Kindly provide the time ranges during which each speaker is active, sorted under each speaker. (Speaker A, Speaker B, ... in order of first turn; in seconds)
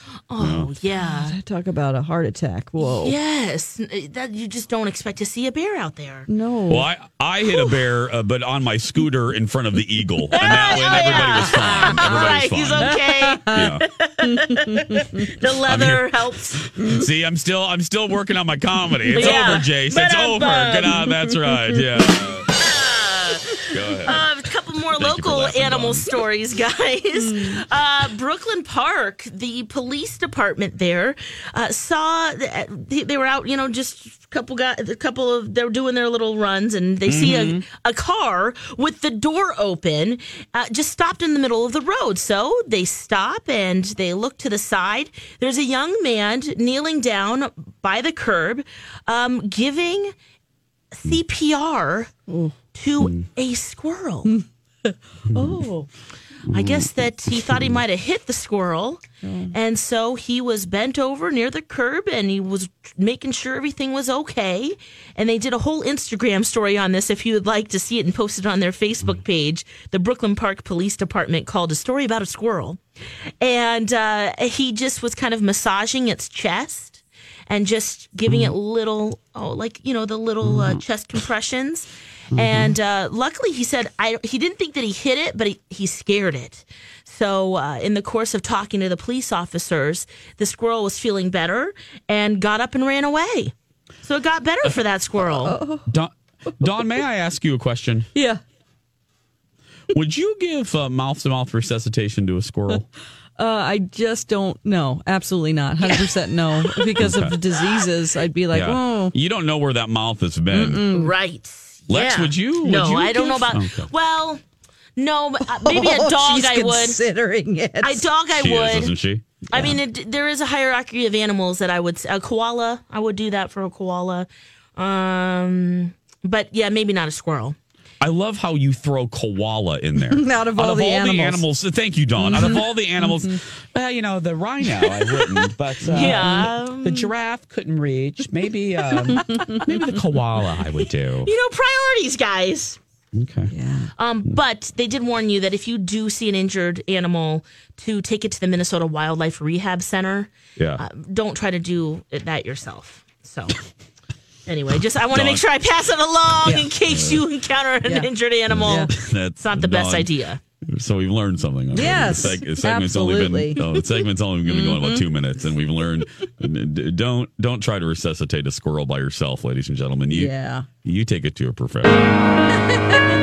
Speaker A: 0.3-1.4, 2.8-6.3, 10.3-16.6, 19.1-21.0, 22.5-50.1, 50.9-52.1, 52.7-54.3, 56.5-72.8, 73.4-95.5, 105.8-106.1, 110.9-114.4, 115.0-117.0, 117.8-118.9, 119.5-127.5, 135.9-137.1, 141.2-142.8, 144.0-153.6, 154.4-160.4
Speaker B: 0.4-0.7, 6.7-12.9, 13.5-13.8, 15.7-22.5, 23.7-24.2, 24.9-26.1, 37.0-37.6, 53.0-53.2, 55.3-55.6, 56.5-57.8, 78.3-78.5, 80.4-80.8, 82.3-82.7, 95.9-98.1, 99.9-102.8, 107.0-107.3, 108.5-110.8, 111.9-113.9, 118.4-119.8, 128.0-141.3, 143.1-143.5, 150.6-150.8, 155.1-155.4, 156.4-157.2, 158.5-160.1, 160.6-170.3, 170.8-172.1
Speaker C: 1.0-3.1, 6.3-6.9, 12.8-13.7, 14.3-15.1, 19.1-19.5, 27.2-27.5, 52.3-52.5, 55.3-55.9, 59.2-59.5, 95.4-95.9, 98.1-98.4, 103.4-109.1, 110.5-111.1, 115.5-118.0, 130.1-131.4, 132.2-133.3, 135.9-136.5, 143.5-143.9, 161.7-163.6, 164.5-165.0, 170.1-170.7, 172.7-173.0